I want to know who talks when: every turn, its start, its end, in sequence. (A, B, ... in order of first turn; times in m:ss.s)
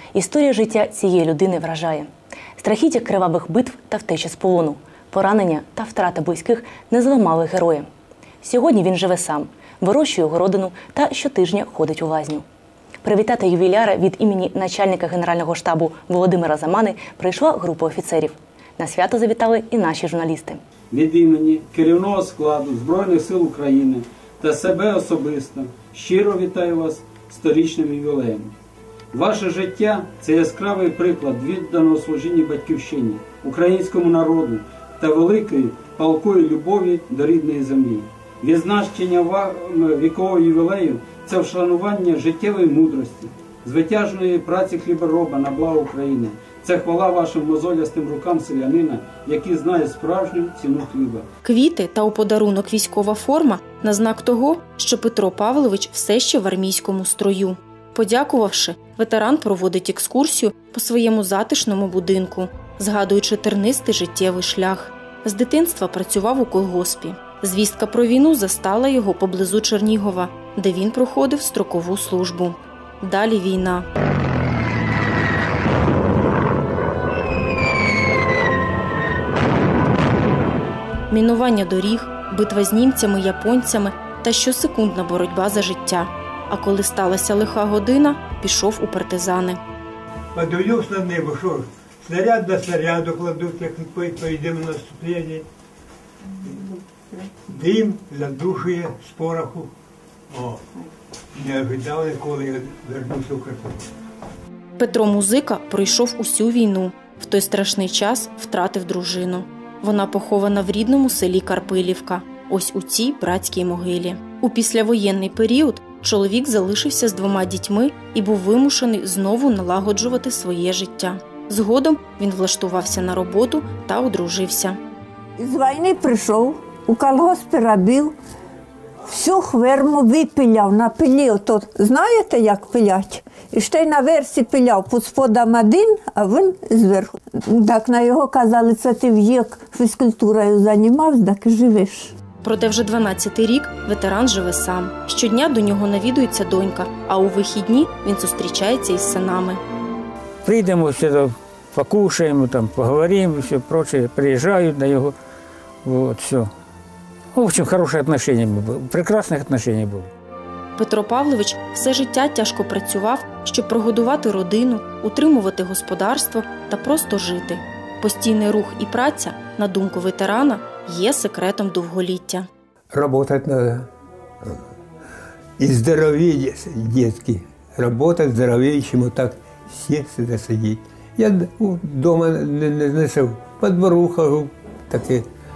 0:00.2-0:01.6 A
0:02.7-0:06.5 A
0:07.2-0:07.6 A
0:08.5-0:09.3 A
0:09.9-0:12.2 A
0:13.0-0:20.5 A
0:20.9-0:28.5 B
0:29.1-0:51.2 B
0:51.4-1:13.8 C
1:21.1-1:29.6 C
1:30.3-1:35.4 D
1:36.4-1:36.7 D
1:37.5-1:39.7 D
1:40.3-1:40.6 D
1:41.3-1:43.8 D
1:44.8-2:04.8 C
2:05.4-2:08.1 E
2:09.1-2:22.1 E
2:22.4-2:29.6 C
2:30.4-2:35.1 F
2:35.8-2:36.5 F
2:37.3-2:40.1 F
2:40.8-2:52.5 C
2:52.9-2:53.9 D
2:55.6-3:05.3 D